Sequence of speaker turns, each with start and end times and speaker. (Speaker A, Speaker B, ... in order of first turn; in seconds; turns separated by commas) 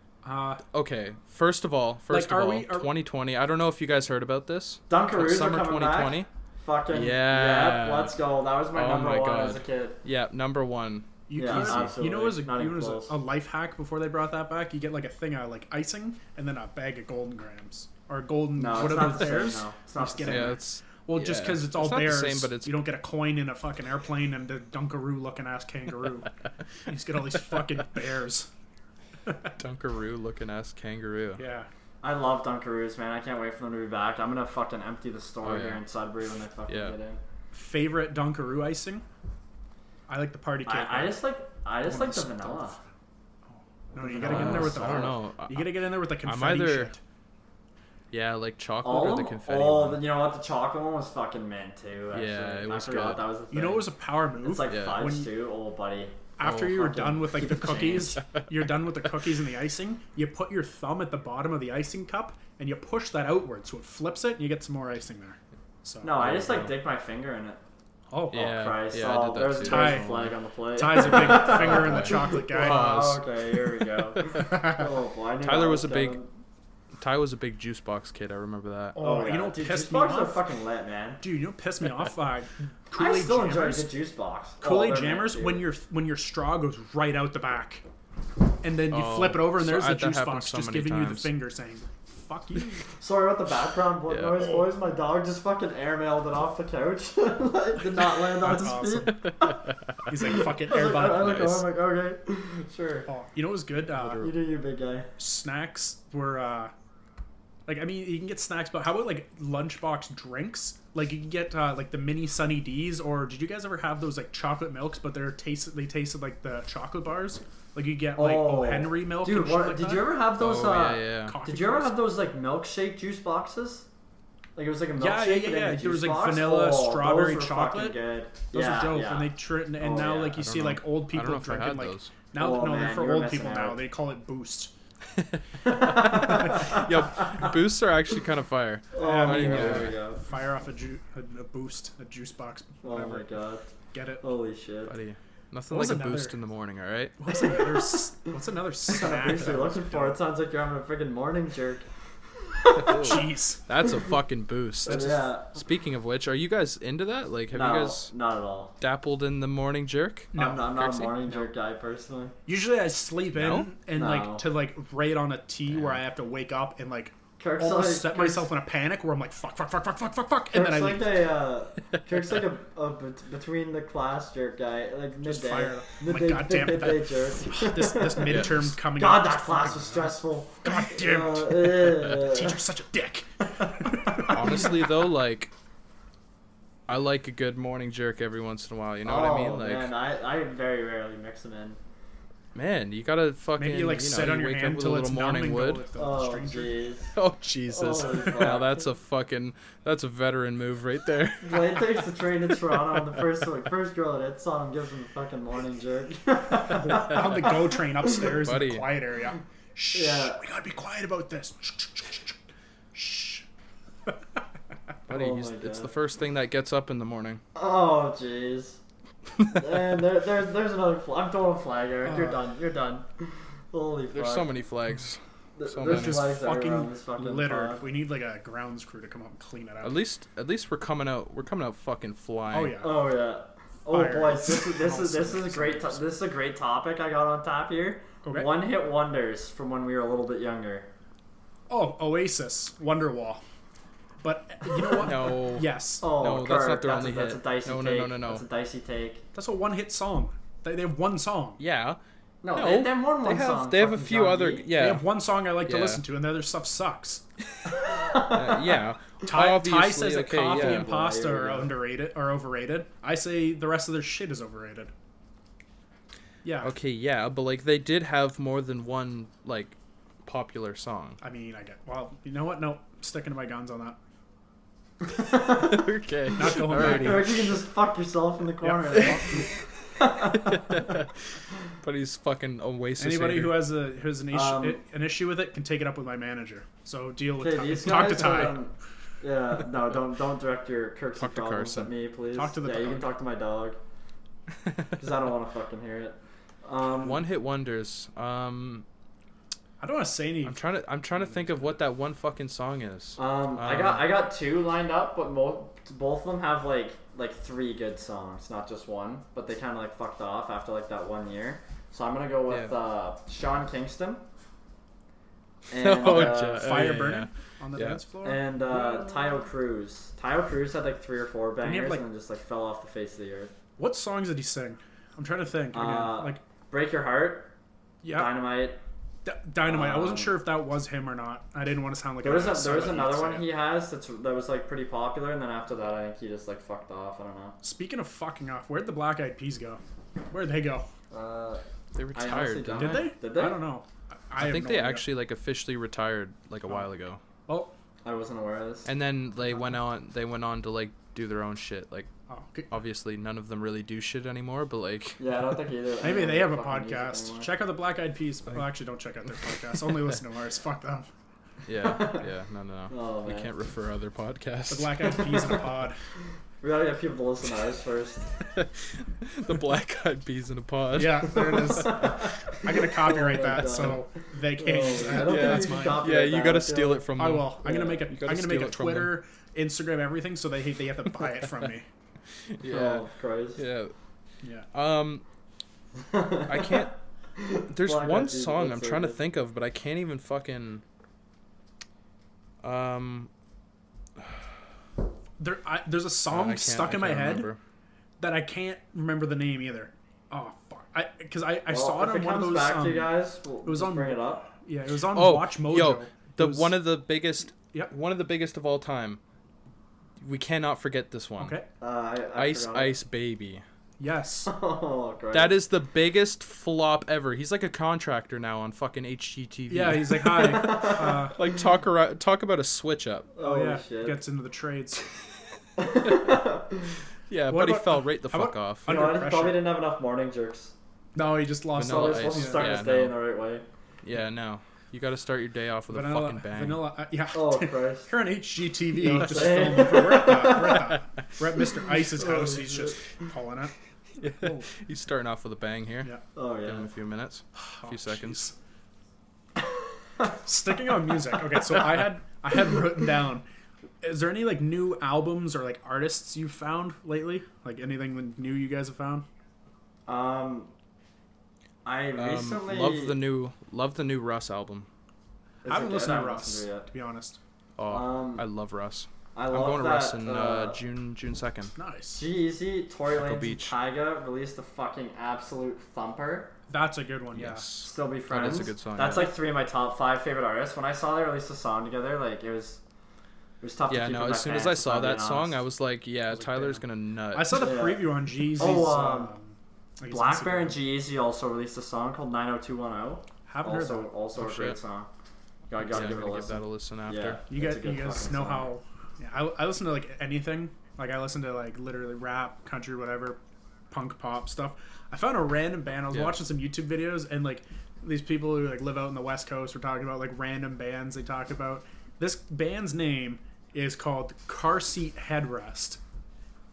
Speaker A: 0.2-0.6, Speaker B: 0.7-6.3, Speaker A: 2.1-2.9, Speaker C: 4.9-10.0, Speaker B: 6.9-8.2, Speaker B: 8.7-11.9, Speaker A: 11.3-26.3, Speaker C: 11.3-13.1, Speaker C: 18.6-20.6, Speaker B: 20.2-22.8, Speaker A: 26.9-28.5, Speaker A: 29.2-29.5, Speaker B: 29.6-31.4, Speaker A: 31.4-31.7, Speaker C: 32.0-37.2, Speaker B: 35.4-35.8, Speaker B: 36.7-37.0, Speaker A: 37.5-39.0, Speaker A: 40.1-41.2, Speaker C: 40.6-42.8, Speaker A: 41.9-42.7, Speaker A: 43.5-47.0, Speaker C: 44.0-45.2, Speaker B: 44.2-46.9, Speaker B: 48.1-50.0, Speaker C: 48.8-53.9, Speaker B: 52.1-53.3, Speaker A: 53.5-55.3, Speaker C: 54.4-58.2, Speaker B: 54.7-55.0, Speaker A: 56.4-66.2, Speaker C: 66.0-67.6, Speaker B: 66.2-66.7, Speaker A: 68.1-68.5, Speaker B: 68.3-70.3, Speaker C: 68.3-76.3, Speaker A: 69.6-70.2, Speaker A: 70.8-73.1, Speaker B: 71.0-73.7, Speaker B: 74.2-74.5, Speaker B: 75.4-76.2, Speaker B: 77.0-79.0, Speaker A: 78.9-80.4, Speaker C: 79.0-81.2, Speaker A: 81.2-83.9, Speaker C: 82.9-85.6, Speaker A: 84.6-87.8, Speaker A: 88.6-92.8, Speaker B: 88.9-91.3, Speaker C: 93.0-99.6, Speaker B: 94.1-94.5, Speaker A: 97.9-99.2, Speaker B: 99.1-100.1, Speaker A: 100.1-101.6, Speaker C: 100.3-103.1, Speaker B: 101.1-101.6, Speaker A: 103.1-104.3, Speaker B: 104.0-104.3, Speaker C: 104.2-105.1, Speaker A: 105.2-106.7, Speaker A: 107.7-120.1, Speaker C: 118.2-123.9, Speaker B: 120.4-121.4, Speaker A: 121.2-122.0, Speaker C: 124.6-130.4, Speaker A: 125.0-128.0, Speaker A: 128.5-134.7, Speaker B: 130.4-132.1, Speaker C: 132.3-133.8, Speaker B: 135.1-140.0, Speaker C: 135.6-137.2, Speaker C: 138.9-140.2, Speaker A: 139.0-143.3, Speaker C: 142.8-143.7, Speaker A: 143.9-144.2, Speaker C: 144.2-144.9, Speaker B: 144.9-147.2, Speaker A: 145.7-146.4, Speaker A: 147.2-150.2, Speaker C: 148.9-151.8, Speaker C: 152.6-153.2, Speaker B: 152.7-158.1, Speaker A: 152.9-153.6, Speaker C: 154.8-155.5, Speaker C: 157.5-158.7, Speaker B: 158.8-161.4, Speaker A: 160.3-160.7, Speaker C: 160.3-162.3, Speaker A: 162.4-171.2, Speaker B: 163.3-163.7, Speaker C: 163.9-164.4, Speaker B: 165.7-166.0, Speaker C: 167.4-168.5, Speaker C: 170.5-182.6, Speaker A: 175.2-184.7, Speaker B: 178.2-178.5, Speaker B: 184.2-185.5, Speaker B: 186.9-189.9, Speaker C: 189.1-191.8, Speaker B: 192.6-195.8, Speaker A: 193.6-196.7, Speaker C: 196.0-197.1, Speaker B: 197.1-202.0, Speaker C: 197.7-198.8, Speaker C: 201.4-207.5, Speaker A: 206.7-212.4, Speaker B: 208.4-208.9, Speaker C: 209.9-210.4, Speaker A: 212.9-213.4, Speaker B: 215.1-217.4, Speaker C: 215.1-215.9, Speaker C: 217.6-218.8, Speaker C: 219.5-224.5, Speaker A: 222.1-222.4, Speaker B: 224.1-226.4, Speaker C: 225.6-227.8, Speaker A: 225.8-230.0, Speaker B: 229.8-232.8, Speaker A: 232.5-232.9, Speaker C: 232.8-240.9, Speaker A: 233.9-236.0, Speaker A: 238.2-238.5, Speaker A: 241.7-243.4, Speaker A: 244.2-246.1, Speaker B: 245.0-248.4, Speaker C: 246.0-249.2, Speaker A: 249.3-251.6, Speaker B: 251.6-252.0, Speaker C: 252.4-254.7, Speaker B: 252.6-256.0, Speaker A: 254.7-257.2, Speaker C: 257.8-258.7, Speaker B: 258.1-260.9, Speaker A: 259.2-264.9, Speaker C: 260.5-261.7, Speaker A: 266.4-266.7, Speaker B: 266.6-271.2, Speaker A: 271.2-274.0, Speaker C: 275.1-275.9, Speaker B: 275.5-277.5, Speaker A: 276.4-277.4, Speaker C: 276.8-280.9, Speaker A: 278.6-279.4, Speaker B: 280.3-281.1, Speaker B: 281.8-283.7, Speaker A: 283.0-288.6, Speaker C: 284.3-284.8, Speaker C: 287.4-293.8, Speaker B: 291.2-291.9, Speaker A: 292.3-293.1, Speaker C: 295.0-297.2, Speaker B: 297.0-298.8, Speaker A: 299.8-300.6, Speaker B: 300.4-304.1, Speaker A: 301.2-301.7, Speaker C: 303.2-314.2, Speaker C: 315.7-317.0, Speaker B: 315.7-318.0, Speaker A: 316.0-319.1, Speaker C: 318.2-323.5, Speaker A: 321.6-322.1, Speaker A: 323.8-326.4, Speaker C: 325.7-327.5, Speaker A: 328.0-328.4, Speaker C: 328.1-328.8, Speaker A: 329.2-333.5, Speaker C: 329.6-330.4, Speaker C: 332.2-337.6, Speaker A: 337.6-340.9, Speaker C: 341.1-341.6, Speaker B: 341.9-343.1, Speaker C: 342.1-343.6, Speaker A: 342.8-345.1, Speaker B: 344.4-347.2, Speaker A: 347.5-347.7, Speaker C: 348.0-348.9, Speaker B: 348.8-352.1, Speaker A: 352.3-352.7, Speaker B: 352.7-355.2, Speaker C: 355.2-357.5, Speaker A: 356.0-361.1, Speaker B: 361.7-365.2, Speaker C: 361.8-362.2, Speaker C: 362.9-363.5, Speaker A: 364.7-366.0, Speaker C: 365.2-365.6, Speaker C: 366.6-368.3, Speaker B: 368.5-371.8, Speaker A: 370.9-376.1, Speaker C: 371.5-377.1, Speaker B: 375.1-379.2, Speaker A: 377.2-381.9, Speaker C: 377.6-378.0, Speaker B: 382.6-383.1, Speaker C: 382.6-383.6, Speaker B: 383.6-383.9, Speaker A: 384.4-384.7, Speaker B: 384.7-385.2, Speaker C: 386.0-389.2, Speaker B: 386.5-386.9, Speaker B: 387.7-390.8, Speaker B: 392.6-393.3, Speaker A: 395.4-397.5, Speaker B: 396.3-397.6, Speaker A: 398.2-403.1, Speaker C: 401.7-404.5, Speaker A: 403.6-406.7, Speaker B: 405.1-409.2, Speaker B: 410.2-411.6, Speaker A: 411.4-411.7, Speaker C: 411.8-413.0, Speaker B: 412.4-413.6, Speaker A: 414.0-414.5, Speaker C: 414.5-415.6, Speaker B: 415.3-423.3, Speaker A: 419.7-421.4, Speaker C: 420.3-421.3, Speaker C: 423.3-424.2, Speaker A: 423.4-425.0, Speaker C: 425.8-426.9, Speaker B: 426.0-426.4, Speaker B: 427.3-429.0, Speaker A: 427.5-429.7, Speaker C: 428.9-430.7, Speaker A: 431.1-432.7, Speaker B: 431.8-433.2, Speaker C: 431.8-433.6, Speaker B: 434.0-436.9, Speaker A: 435.9-443.7, Speaker C: 437.3-438.1, Speaker C: 438.9-440.9, Speaker C: 442.2-442.9, Speaker B: 444.2-446.1, Speaker A: 444.4-444.7, Speaker C: 446.3-446.9, Speaker B: 446.6-448.5, Speaker A: 447.6-448.5, Speaker A: 450.3-453.4, Speaker A: 454.0-459.2, Speaker C: 460.1-460.7, Speaker C: 461.8-463.2, Speaker B: 462.2-464.9, Speaker C: 465.6-466.9, Speaker A: 465.6-467.4, Speaker B: 467.8-471.7, Speaker C: 467.9-468.4, Speaker C: 469.3-470.8, Speaker A: 471.7-472.2, Speaker C: 472.1-476.5, Speaker B: 473.1-473.7, Speaker A: 476.7-477.7, Speaker B: 477.3-479.3, Speaker C: 477.8-482.8, Speaker C: 483.6-485.6, Speaker B: 483.9-487.7, Speaker A: 486.3-490.8, Speaker C: 487.5-489.3, Speaker C: 490.1-495.1, Speaker A: 493.5-494.1, Speaker B: 494.4-494.8, Speaker C: 495.7-498.7, Speaker B: 495.8-497.4, Speaker A: 497.5-503.4, Speaker A: 503.9-516.0, Speaker B: 506.1-506.4